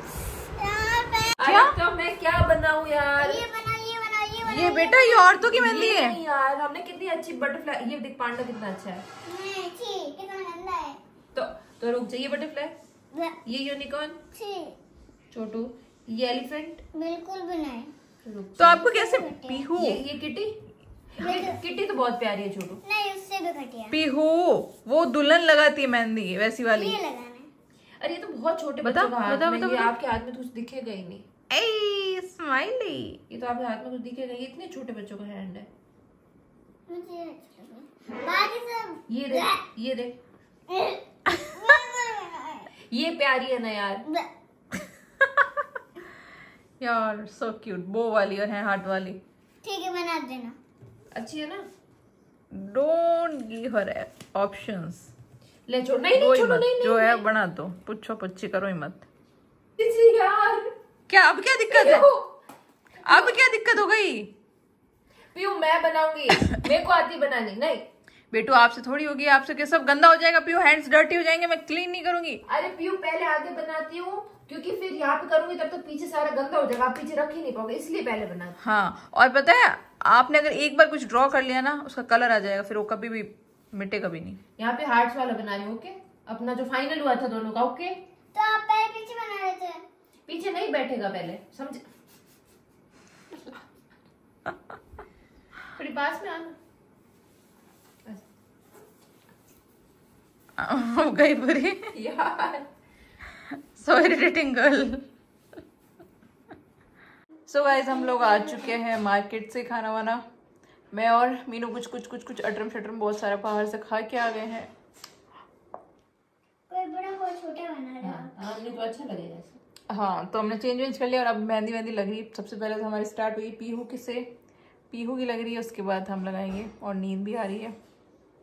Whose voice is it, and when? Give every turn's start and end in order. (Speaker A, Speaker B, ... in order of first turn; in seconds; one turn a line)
Speaker A: 0.6-1.4
Speaker B: 1.4-3.5
Speaker C: 1.4-1.7
Speaker A: 3.2-5.4
Speaker C: 4.4-6.2
Speaker B: 5.4-9.0
Speaker A: 9.2-11.0
Speaker B: 11.3-12.7
Speaker A: 13.1-13.4
Speaker B: 13.4-14.2
Speaker A: 14.3-14.8
Speaker B: 15.3-16.8
Speaker A: 16.9-17.9
Speaker B: 18.2-18.8
Speaker C: 18.6-20.0
Speaker A: 18.8-19.7
Speaker B: 19.7-20.6
Speaker B: 21.1-22.8
Speaker A: 21.2-21.6
Speaker A: 22.8-24.0
Speaker C: 23.9-27.0
Speaker A: 26.7-27.5
Speaker B: 28.0-31.2
Speaker C: 28.8-29.9
Speaker C: 31.5-33.2
Speaker B: 33.3-35.7
Speaker A: 36.9-39.6
Speaker B: 39.1-40.2
Speaker A: 40.7-42.7
Speaker B: 42.9-44.0
Speaker A: 44.0-44.3
Speaker C: 46.8-49.2
Speaker A: 49.6-50.5
Speaker B: 51.1-51.6
Speaker C: 52.5-55.1
Speaker B: 55.7-57.2
Speaker C: 56.1-59.0
Speaker B: 59.8-60.7
Speaker C: 61.1-62.1
Speaker B: 61.7-62.2
Speaker C: 63.0-64.3
Speaker B: 63.0-63.4
Speaker B: 65.3-67.9
Speaker C: 68.3-72.4
Speaker B: 72.5-78.5
Speaker C: 78.6-84.4
Speaker B: 84.6-88.0
Speaker A: 88.3-89.8
Speaker B: 90.3-91.8
Speaker B: 95.7-96.5
Speaker C: 100.6-101.8
Speaker B: 101.9-102.7
Speaker C: 103.6-105.0
Speaker C: 107.5-110.2
Speaker C: 110.9-114.7
Speaker A: 116.7-118.4
Speaker B: 118.0-119.6
Speaker C: 119.9-124.3
Speaker C: 124.9-127.7